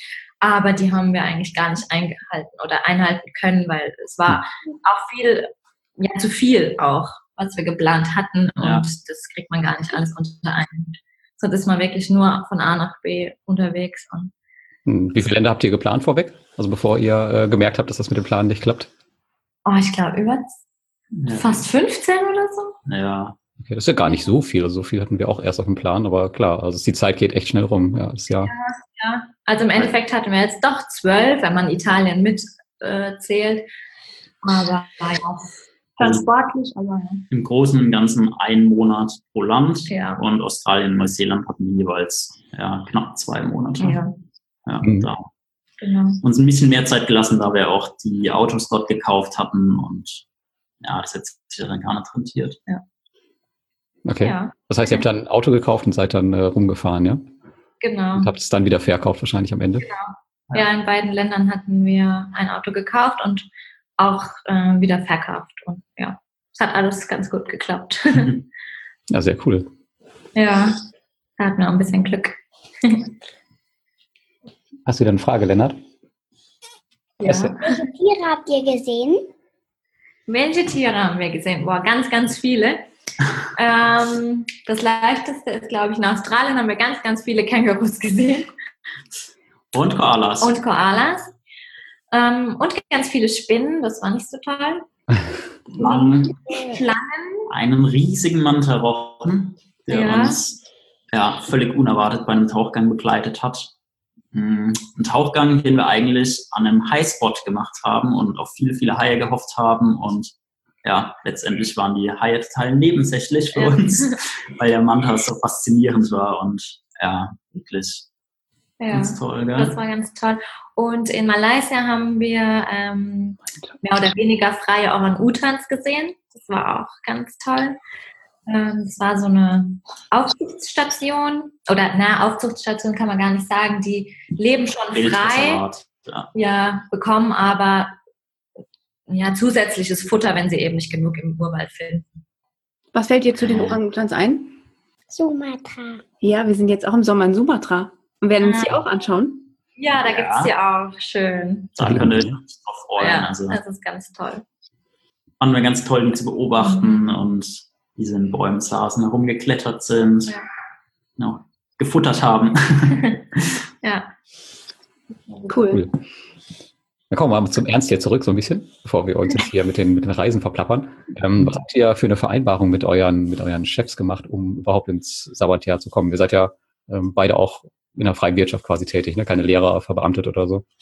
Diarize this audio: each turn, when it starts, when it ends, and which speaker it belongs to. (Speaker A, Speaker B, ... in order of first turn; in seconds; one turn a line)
Speaker A: 0.4-14.3
Speaker B: 8.6-8.9
Speaker C: 14.9-18.9
Speaker A: 19.6-20.6
Speaker B: 21.1-21.6
Speaker A: 21.3-22.8
Speaker B: 22.9-23.4
Speaker C: 23.6-28.5
Speaker A: 28.4-33.6
Speaker A: 34.4-37.2
Speaker B: 37.3-44.0
Speaker A: 39.9-40.2
Speaker A: 43.8-44.1
Speaker B: 44.6-45.3
Speaker C: 44.8-45.1
Speaker A: 45.8-46.2
Speaker B: 46.2-50.2
Speaker B: 50.8-52.6
Speaker C: 54.0-57.2
Speaker A: 54.2-55.0
Speaker A: 57.8-58.3
Speaker C: 58.1-59.9
Speaker A: 59.8-68.4
Speaker C: 69.1-69.7
Speaker A: 70.3-70.8
Speaker A: 71.4-73.1
Speaker C: 74.9-75.8
Speaker A: 77.2-77.8
Speaker C: 77.2-77.5
Speaker D: 77.6-79.2
Speaker A: 80.3-82.8
Speaker A: 83.5-88.5
Speaker B: 89.7-90.6
Speaker A: 90.4-91.3
Speaker A: 92.1-94.9
Speaker B: 95.7-96.4
Speaker A: 95.8-97.5
Speaker B: 97.5-103.7
Speaker A: 99.9-100.4
Speaker B: 104.3-110.3
Speaker B: 110.8-118.0
Speaker A: 113.5-114.2
Speaker A: 118.8-127.8
Speaker B: 118.9-119.8
Speaker A: 128.5-135.6
Speaker B: 134.9-136.3
Speaker A: 136.3-137.9
Speaker A: 139.1-142.1
Speaker E: 142.9-144.6
Speaker B: 143.4-143.8
Speaker D: 145.1-146.0
Speaker E: 146.2-149.5
Speaker A: 148.4-148.8
Speaker A: 149.8-151.8
Speaker B: 150.0-150.5
Speaker B: 151.8-153.6
Speaker C: 151.8-152.4
Speaker A: 153.0-154.4
Speaker B: 155.4-160.4
Speaker A: 156.6-157.1
Speaker B: 161.2-163.4
Speaker A: 163.8-164.1
Speaker E: 165.5-165.8
Speaker C: 165.7-166.0
Speaker C: 167.1-180.6